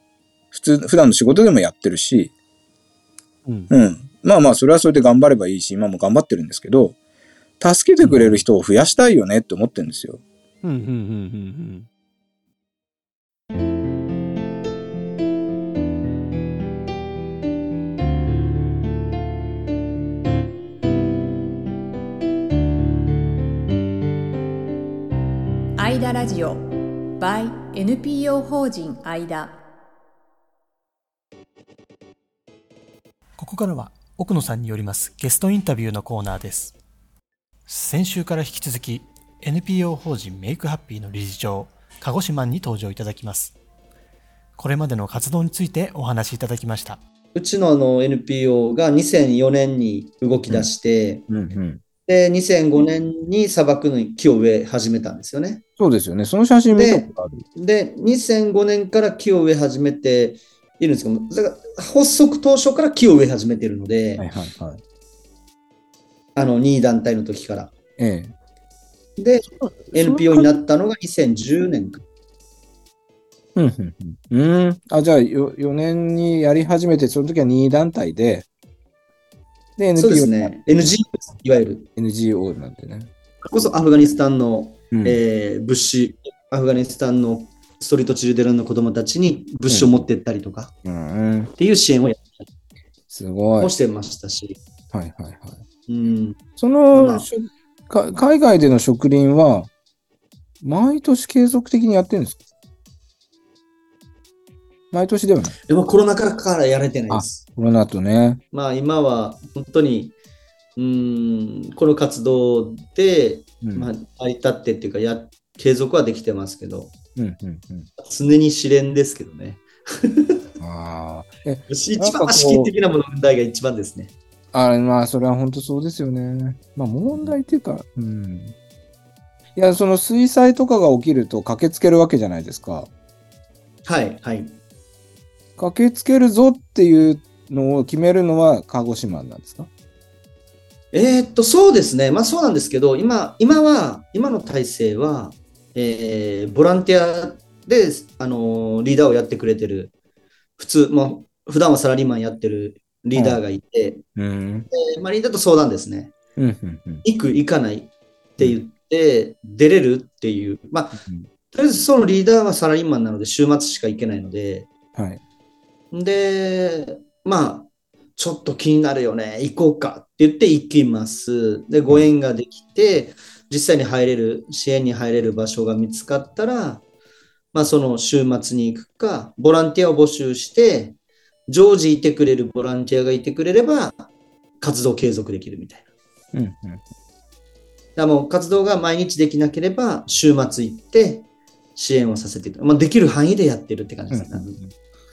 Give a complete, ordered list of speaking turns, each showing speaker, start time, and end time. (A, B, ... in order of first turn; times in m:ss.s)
0:00.5-0:02.3 A
0:03.4-0:03.7 B
0:03.7-0:06.9 A
0:07.6-0:10.2 A
0:08.0-0:08.4 B
0:10.6-0:11.9 B
0:25.8-0:26.6 C
0:27.2-0:29.5 C
0:33.4-0:36.7 D
0:33.9-0:35.4 B
0:37.7-0:43.5 D
0:37.9-0:38.8 B
0:39.6-0:40.0 B
0:40.8-0:41.7 B
0:42.5-0:43.3 B
0:44.6-0:46.9 D
0:45.2-0:46.8 B
0:47.3-0:51.2 E
0:51.3-0:51.8 A
0:52.0-0:55.6 E
0:55.8-0:57.4 A
0:56.7-1:04.2 E
1:04.2-1:04.8 A
1:06.4-1:07.7 E
1:08.0-1:08.3 A
1:09.2-1:12.0 E
1:09.5-1:10.5 B
1:13.6-1:18.4 A
1:19.8-1:20.5 A
1:20.0-1:21.8 E
1:22.0-1:23.7 A
1:23.4-1:30.7 E
1:24.9-1:25.2 A
1:29.7-1:30.0 A
1:30.8-1:31.5 A
1:31.6-1:32.4 E
1:33.1-1:33.7 A
1:33.6-1:34.6 E
1:34.9-1:35.6 A
1:35.9-1:36.4 E
1:36.6-1:39.7 A
1:36.9-1:37.3 E
1:40.6-1:42.4 A
1:44.9-1:45.6 A
1:45.7-1:47.4 E
1:47.1-1:48.4 A
1:48.5-1:50.1 E
1:50.8-1:56.9 E
1:53.6-1:53.9 A
1:57.2-1:57.9 A
1:58.0-2:00.4 E
2:00.6-2:02.7 A
2:01.7-2:04.1 E
2:04.5-2:08.5 A
2:09.6-2:12.9 A
2:13.8-2:14.5 E
2:15.6-2:19.7 A
2:20.9-2:29.9 E
2:30.6-2:34.0 E
2:34.2-2:34.7 A
2:34.7-2:36.1 E
2:36.4-2:37.0 A
2:37.0-2:41.0 E
2:41.5-2:44.7 E
2:44.9-2:45.2 A
2:45.9-2:56.8 E
2:57.5-3:01.0 E
3:01.5-3:04.1 E
3:04.6-3:05.8 E
3:06.3-3:06.8 A
3:08.0-3:14.6 E
3:14.1-3:14.6 A